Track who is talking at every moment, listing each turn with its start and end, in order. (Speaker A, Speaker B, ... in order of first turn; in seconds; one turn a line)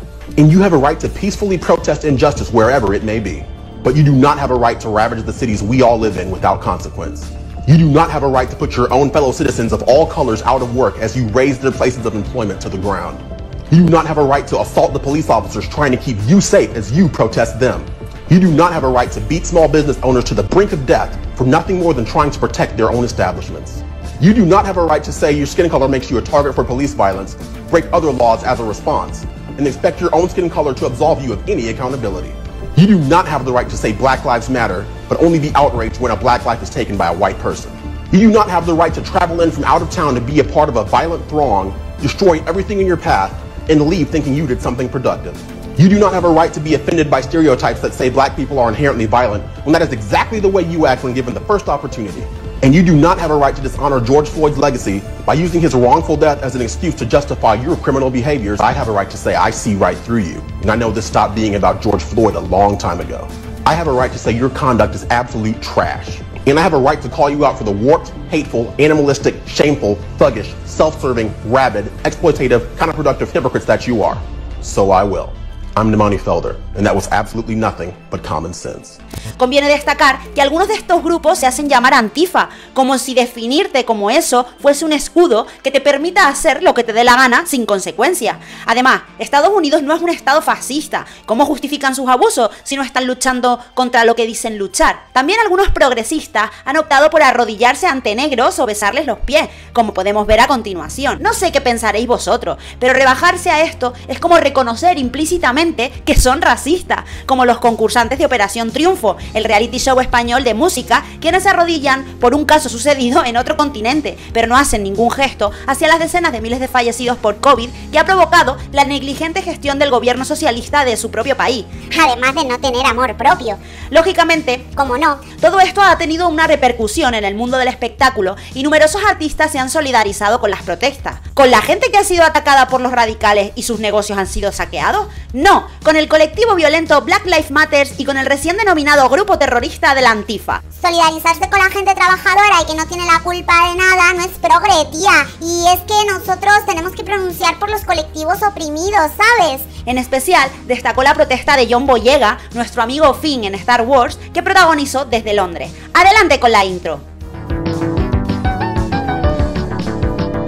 Speaker A: 0.4-79.0
Speaker B: 79.4-121.7
Speaker C: 121.9-123.6
Speaker B: 123.9-124.7
Speaker C: 124.8-125.2
Speaker B: 125.3-140.6
Speaker C: 140.8-149.7
Speaker B: 149.8-157.0